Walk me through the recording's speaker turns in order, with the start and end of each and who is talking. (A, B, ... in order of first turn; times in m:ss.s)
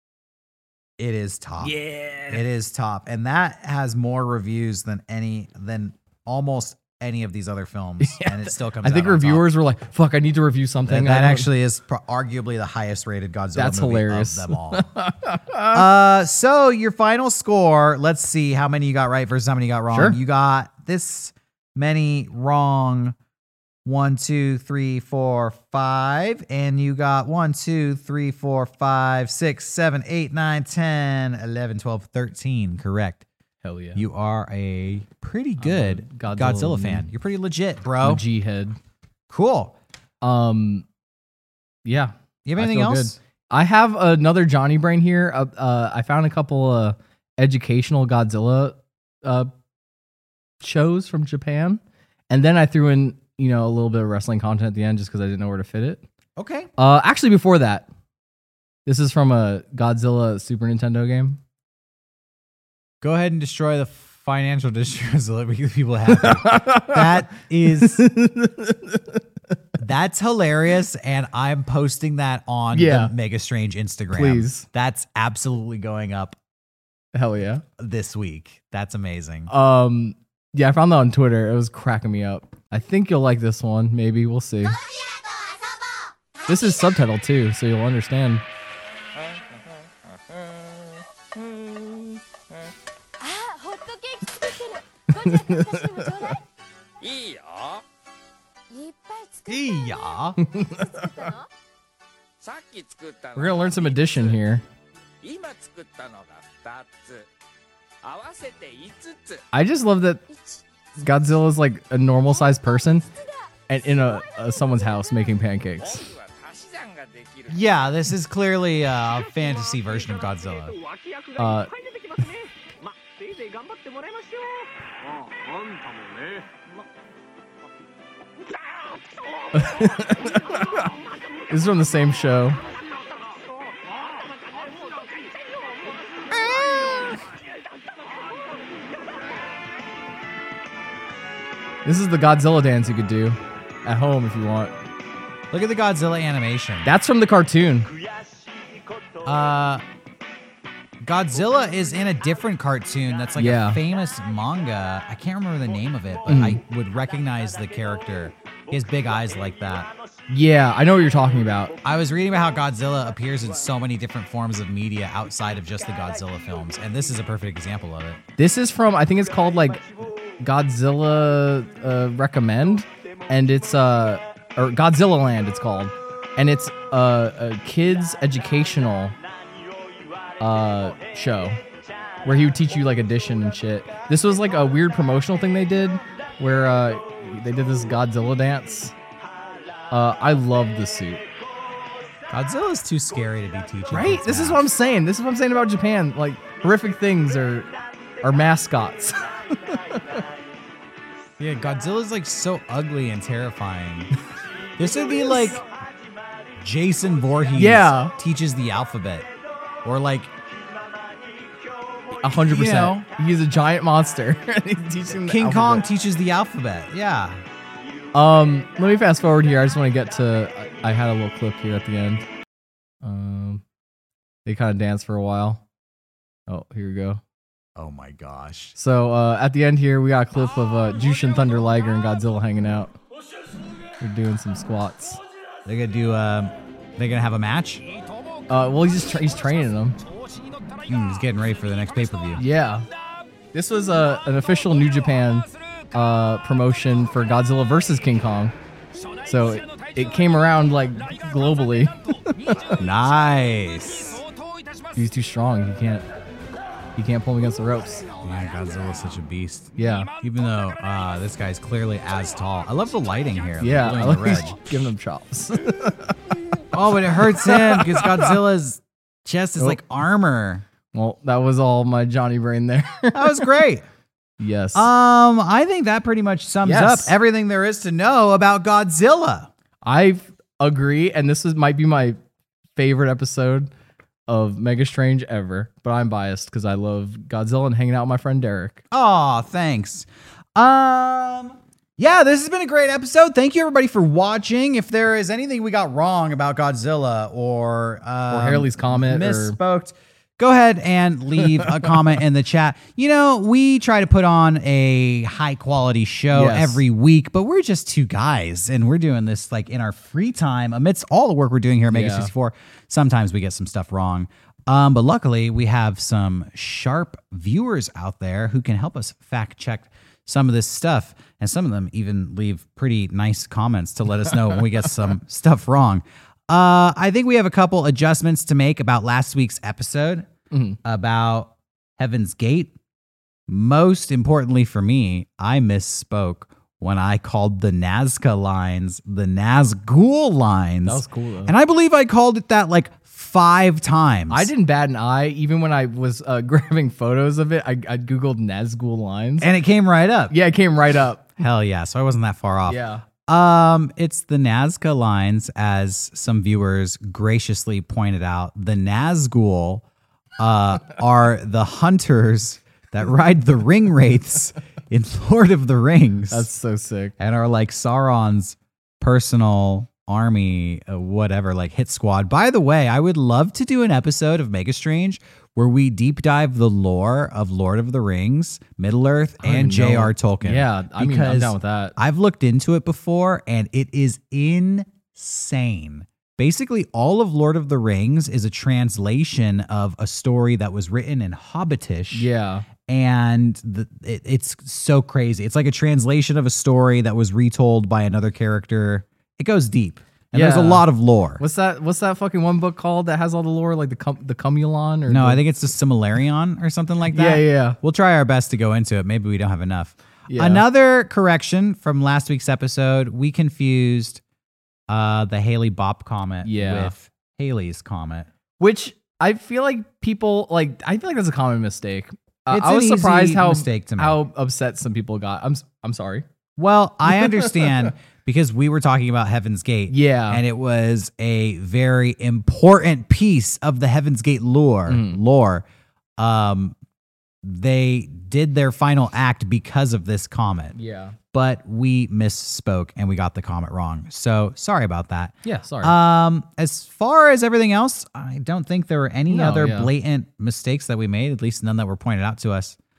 0:01.0-0:01.7 A
0:01.6-0:02.4 B
0:02.3-0:09.4 A
0:08.0-0:11.5 B
0:10.9-0:14.9 A
0:13.6-0:15.9 B
0:15.7-0:23.2 A
0:19.9-0:20.2 B
0:23.8-0:33.2 A
0:33.6-0:34.0 B
0:34.0-0:38.2 A
0:35.6-0:37.1 B
0:38.0-0:38.8 B
0:39.3-0:39.7 A
0:40.2-0:40.8 B
0:41.8-0:49.5 B
0:42.4-0:43.2 A
0:50.6-0:56.0 B
0:56.4-0:56.7 A
0:56.8-0:57.9 B
0:58.8-1:01.4 B
1:03.0-1:08.1 A
1:06.1-1:09.2 B
1:09.8-1:16.4 A
1:12.7-1:13.1 B
1:14.1-1:14.6 B
1:17.1-1:17.6 B
1:17.8-1:19.5 A
1:19.5-1:24.8 B
1:26.4-1:28.4 B
1:30.5-1:30.9 C
1:33.2-1:36.3 C
1:35.1-1:36.4 B
1:37.0-1:37.8 C
1:38.7-1:39.5 C
1:39.4-1:40.4 A
1:40.4-1:41.3 B
1:41.0-1:41.5 C
1:42.4-1:44.4 C
1:43.3-1:44.6 B
1:45.2-1:47.3 C
1:48.0-1:49.4 C
1:49.5-1:50.3 B
1:51.0-1:53.1 B
1:53.2-1:53.5 C
1:53.7-1:56.1 B
1:55.8-1:57.6 C
1:57.5-2:00.8 A
2:00.8-2:02.5 C
2:01.4-2:01.7 B
2:03.2-2:04.7 C
2:05.3-2:06.5 C
2:09.5-2:10.9 B
2:11.5-2:12.6 B
2:13.2-2:13.6 C
2:14.5-2:15.9 C
2:16.3-2:17.2 A
2:21.8-2:24.7 B
2:25.5-2:26.9 A
2:26.8-2:27.9 B
2:29.2-2:29.8 A
2:31.0-2:39.9 A
2:33.4-2:33.8 B
2:36.2-2:36.6 B
2:40.3-2:41.8 B
2:41.8-2:48.2 A
2:48.4-2:49.8 B
2:50.4-2:59.2 B
3:00.4-3:01.6 B
3:02.2-3:08.9 B
3:09.9-3:11.2 B
3:12.3-3:14.6 A
3:13.9-3:17.7 B
3:18.2-3:20.2 B
3:21.4-3:24.1 A
3:24.8-3:25.6 A
3:26.6-3:29.3 A
3:27.5-3:28.1 B
3:29.8-3:30.3 A
3:31.1-3:31.7 C
3:32.2-3:35.8 B
3:32.4-3:33.1 A
3:35.1-3:37.4 A
3:38.1-3:42.2 B
3:43.0-3:43.6 B
3:44.4-3:45.6 B
3:46.5-3:47.2 B
3:47.8-3:48.7 A
3:48.8-3:52.9 B
3:54.0-3:55.2 B
3:55.6-3:57.8 A
3:58.5-4:00.0 B
4:00.9-4:02.4 A
4:02.4-4:02.8 B
4:03.5-4:08.5 B
4:09.2-4:12.8 B
4:12.8-4:14.2 A
4:14.9-4:16.0 B
4:17.0-4:18.1 B
4:18.2-4:19.7 A
4:19.8-4:20.1 B
4:20.2-4:24.7 A
4:23.6-4:28.4 B
4:26.7-4:30.6 A
4:30.9-4:33.5 B
4:33.1-4:33.8 A
4:34.4-4:34.9 B
4:34.7-4:39.5 A
4:36.6-4:37.1 B
4:39.8-4:42.2 B
4:42.8-4:43.7 B
4:44.3-4:48.8 B
4:48.9-5:30.3 A
4:58.3-4:59.6 B
5:01.6-5:01.8 B
5:06.3-5:06.8 B
5:11.9-5:12.3 B
5:30.5-5:30.8 B
5:30.8-5:32.7 A
5:33.5-5:44.5 A
5:40.8-5:41.5 B
5:44.3-5:49.5 B
5:49.4-5:50.3 A
5:50.3-5:51.3 B
5:51.4-5:59.8 A
5:52.6-5:53.0 B
6:00.4-6:06.5 A
6:06.3-6:07.1 B
6:07.2-6:32.3 A
6:19.4-6:22.0 B
6:32.1-6:32.6 B
6:32.9-6:41.4 A
6:40.3-6:40.8 B
6:41.4-6:45.4 B
6:45.1-6:54.2 A
6:47.1-6:47.8 B
6:50.3-6:50.6 B
6:54.9-6:58.3 A
6:56.4-6:56.9 B
6:58.6-7:06.2 B
7:02.5-7:04.2 A
7:06.6-7:15.6 A
7:07.1-7:07.9 B
7:09.9-7:10.4 B
7:14.9-7:15.2 B
7:16.2-7:16.7 A
7:17.4-7:20.8 A
7:20.7-7:21.2 B
7:21.3-7:32.8 A
7:25.4-7:26.0 B
7:29.3-7:29.9 B